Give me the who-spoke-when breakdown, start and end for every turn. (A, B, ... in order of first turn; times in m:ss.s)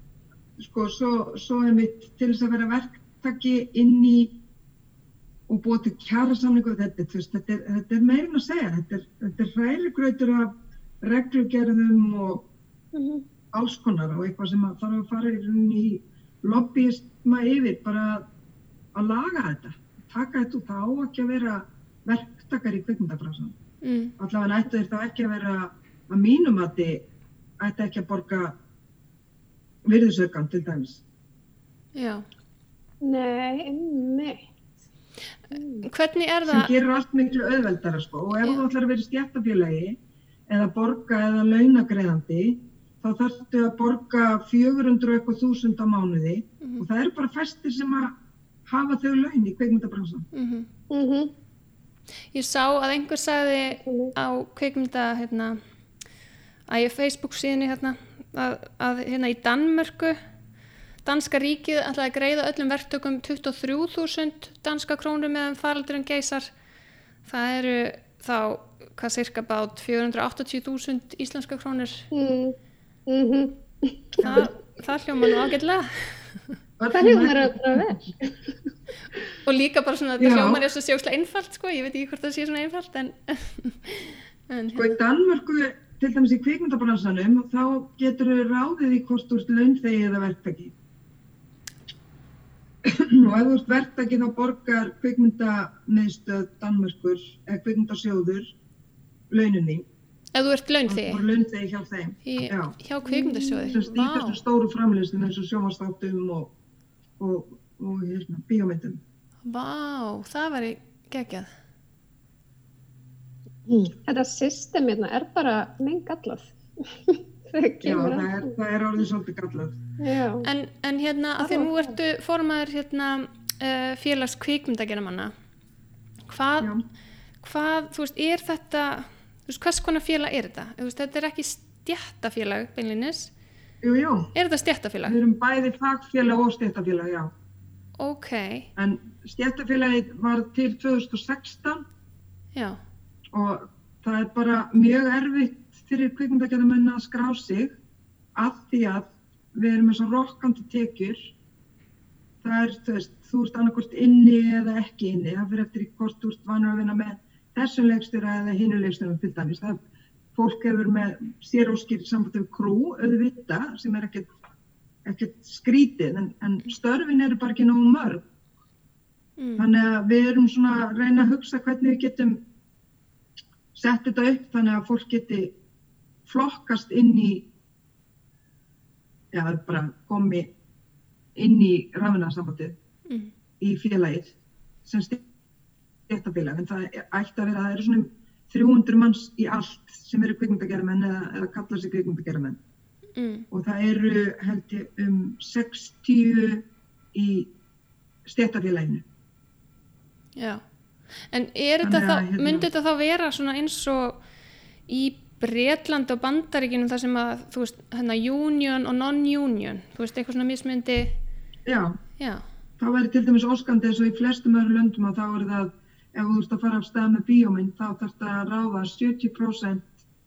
0:00.6-0:04.3 A
0:05.5-0:12.4 A
0:12.9-0:13.2 B
0:13.5-0:18.3 A
0:18.9-0:23.6 A
0:23.8-0:24.2 C
0:24.2-0:27.0 A
0:27.6-0:28.6 A
0:29.8-0:31.0 A
0:32.0-0:32.3 C
0:33.0-0:34.4 B
0:35.5-0:35.9 B
0:35.8-0:36.7 C
0:36.5-0:40.0 A
0:40.5-0:48.2 A
0:48.7-0:50.2 A
0:50.3-0:50.7 C
0:50.9-0:51.3 B
0:52.3-0:55.6 C
0:53.8-0:54.2 B
0:56.7-1:00.2 C
1:01.0-1:06.5 C
1:07.3-1:12.1 C
1:12.1-1:12.6 B
1:13.1-1:14.5 B
1:14.2-1:14.5 A
1:14.2-1:16.6 C
1:16.8-1:18.0 A
1:16.9-1:18.5 B
1:19.4-1:25.0 C
1:20.2-1:20.6 A
1:24.7-1:30.8 A
1:32.8-1:38.5 A
1:39.3-1:39.9 A
1:40.4-1:41.2 C
1:40.9-1:42.8 A
1:42.3-1:44.4 C
1:43.1-1:43.8 B
1:43.7-1:46.5 A
1:47.2-1:49.0 A
1:49.4-1:51.5 C
1:54.0-1:58.4 B
1:57.8-1:59.8 A
2:00.0-2:00.5 B
2:00.4-2:05.3 C
2:01.4-2:01.8 B
2:06.3-2:06.7 C
2:07.4-2:13.3 C
2:13.8-2:14.3 A
2:14.3-2:15.2 C
2:15.0-2:17.3 A
2:18.0-2:18.7 C
2:18.8-2:21.8 A
2:22.5-2:22.8 C
2:23.3-2:27.8 A
2:28.4-2:31.3 A
2:32.4-2:39.8 A
2:40.4-2:44.3 A
2:45.0-2:48.2 A
2:49.4-2:49.7 C
2:49.6-2:52.4 A
2:53.7-2:55.5 A
2:56.3-2:57.4 A
2:59.3-3:00.5 A
3:01.4-3:02.8 A
3:03.6-3:05.2 A
3:06.1-3:12.6 A
3:13.2-3:13.5 C
3:13.5-3:17.5 A
3:18.3-3:19.0 A
3:20.4-3:20.6 C
3:21.3-3:24.2 C
3:21.8-3:22.7 A
3:24.9-3:31.2 C
3:31.7-3:32.0 A
3:32.2-3:32.4 C
3:32.8-3:39.9 A